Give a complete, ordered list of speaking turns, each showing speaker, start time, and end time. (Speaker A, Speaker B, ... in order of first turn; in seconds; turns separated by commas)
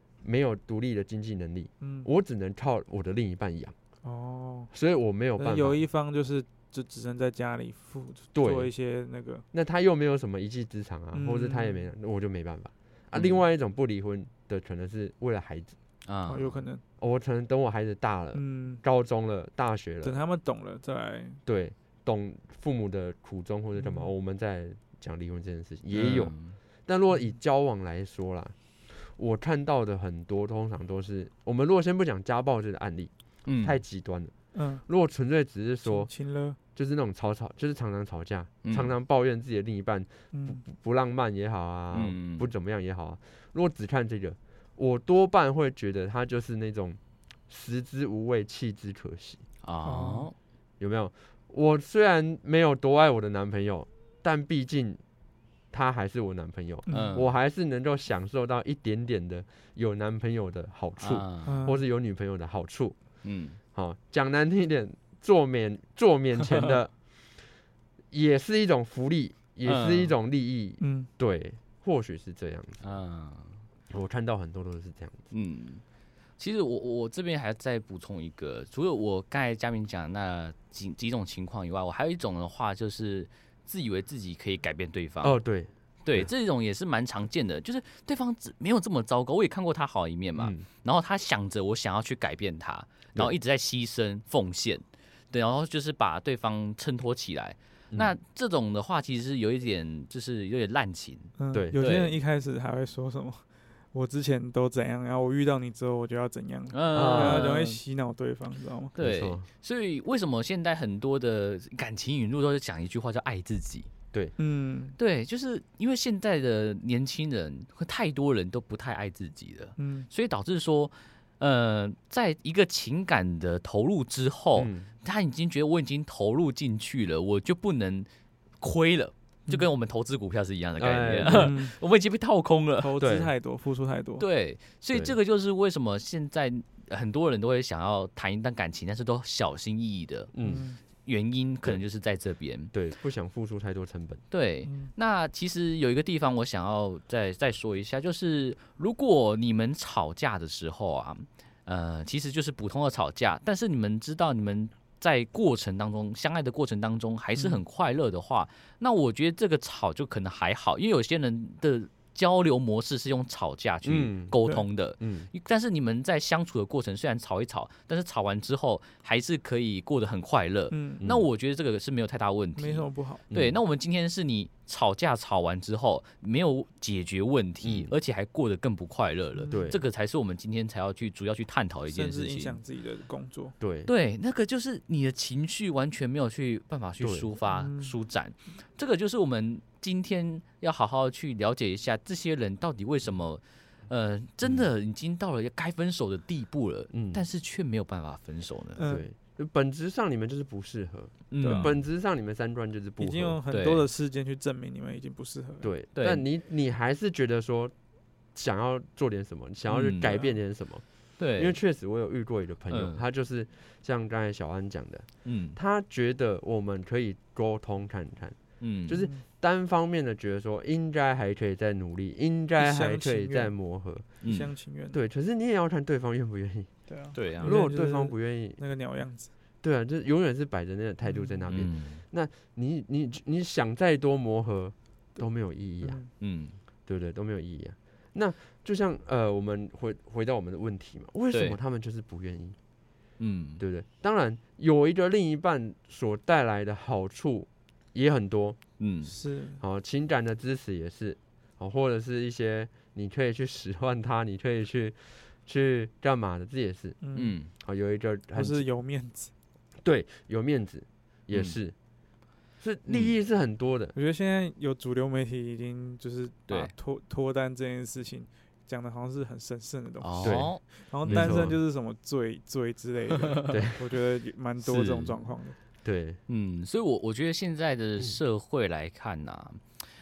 Speaker A: 0.2-3.7, Speaker B: 1.8-2.1, Speaker B: 4.0-4.7, Speaker A: 4.7-5.8, Speaker B: 5.4-9.4, Speaker A: 8.3-8.7, Speaker A: 9.5-15.8, Speaker B: 11.1-11.9, Speaker C: 16.0-16.6, Speaker B: 16.3-16.8, Speaker A: 17.0-20.2, Speaker B: 18.3-18.8, Speaker B: 20.0-21.4, Speaker A: 21.4-26.3, Speaker B: 23.8-24.1, Speaker C: 25.9-26.6, Speaker A: 26.9-34.3, Speaker C: 33.5-33.8, Speaker B: 34.5-34.8, Speaker A: 34.9-36.1, Speaker B: 35.8-36.6, Speaker A: 36.7-49.4, Speaker C: 38.6-38.9, Speaker B: 40.3-40.6, Speaker C: 41.9-42.5, Speaker C: 49.6-50.3, Speaker B: 49.8-50.3, Speaker A: 50.8-55.0, Speaker A: 55.7-62.9, Speaker B: 56.9-57.2, Speaker C: 56.9-57.3, Speaker C: 61.0-61.6, Speaker B: 61.4-61.8, Speaker C: 63.2-63.6, Speaker A: 63.7-66.9, Speaker A: 68.1-72.8, Speaker C: 69.6-70.1, Speaker B: 70.8-71.1, Speaker C: 72.8-73.6, Speaker A: 73.9-75.2, Speaker C: 75.3-75.8, Speaker C: 76.4-85.4, Speaker A: 85.2-86.3, Speaker C: 86.0-102.2, Speaker A: 90.4-90.6, Speaker B: 101.4-108.9, Speaker C: 106.7-107.8, Speaker A: 106.9-107.5, Speaker C: 108.9-113.9, Speaker A: 109.0-109.5, Speaker B: 114.4-115.0, Speaker C: 115.0-128.1, Speaker B: 119.8-120.1, Speaker A: 124.6-124.9, Speaker C: 128.6-132.9, Speaker A: 130.8-131.6, Speaker B: 131.2-131.7, Speaker B: 132.8-134.2, Speaker A: 133.0-133.3, Speaker C: 134.2-140.3, Speaker A: 140.3-140.7, Speaker B: 140.4-140.8, Speaker C: 140.9-142.7, Speaker A: 142.7-144.2, Speaker C: 144.3-182.6, Speaker B: 144.6-144.9, Speaker B: 157.3-157.6, Speaker A: 163.8-164.4, Speaker A: 165.0-165.3, Speaker B: 170.7-171.0, Speaker A: 171.0-171.2, Speaker B: 172.6-173.2, Speaker A: 173.3-173.6, Speaker A: 177.6-177.9, Speaker A: 179.5-179.8, Speaker B: 181.9-183.5, Speaker A: 183.6-183.9, Speaker C: 183.8-198.8, Speaker A: 187.0-187.3, Speaker B: 187.4-187.9, Speaker A: 196.9-197.2, Speaker B: 198.8-199.0, Speaker A: 198.8-203.4, Speaker C: 201.3-201.8, Speaker B: 201.4-201.7, Speaker B: 203.0-205.7, Speaker C: 203.5-203.9, Speaker A: 205.6-207.7, Speaker C: 205.9-206.2, Speaker A: 208.3-210.8, Speaker C: 209.7-210.2, Speaker C: 211.2-211.6, Speaker A: 211.4-224.1, Speaker C: 212.7-213.0, Speaker C: 215.2-215.6, Speaker C: 218.6-219.0, Speaker B: 222.6-223.5, Speaker C: 224.2-224.5, Speaker B: 224.2-225.0, Speaker A: 224.9-226.7, Speaker B: 226.9-229.3, Speaker C: 227.1-227.6, Speaker A: 227.4-228.6, Speaker A: 229.6-236.0, Speaker B: 231.1-231.5, Speaker C: 231.5-232.0, Speaker B: 235.8-236.1, Speaker C: 236.2-236.6, Speaker A: 236.9-242.6, Speaker C: 241.3-241.6, Speaker C: 243.2-243.6, Speaker A: 243.6-248.6, Speaker C: 248.8-249.1, Speaker B: 249.1-249.6, Speaker A: 249.6-257.0, Speaker B: 257.0-257.4, Speaker C: 257.1-257.5, Speaker A: 257.6-258.6, Speaker B: 258.3-259.3, Speaker A: 259.8-261.7, Speaker C: 261.3-261.6, Speaker A: 262.6-263.9, Speaker C: 262.9-263.1, Speaker B: 263.9-275.6, Speaker C: 266.5-266.7, Speaker C: 270.0-271.5, Speaker A: 270.2-270.5, Speaker A: 271.1-271.6, Speaker A: 273.5-273.8, Speaker C: 274.6-275.2, Speaker A: 275.8-276.2, Speaker C: 276.3-279.6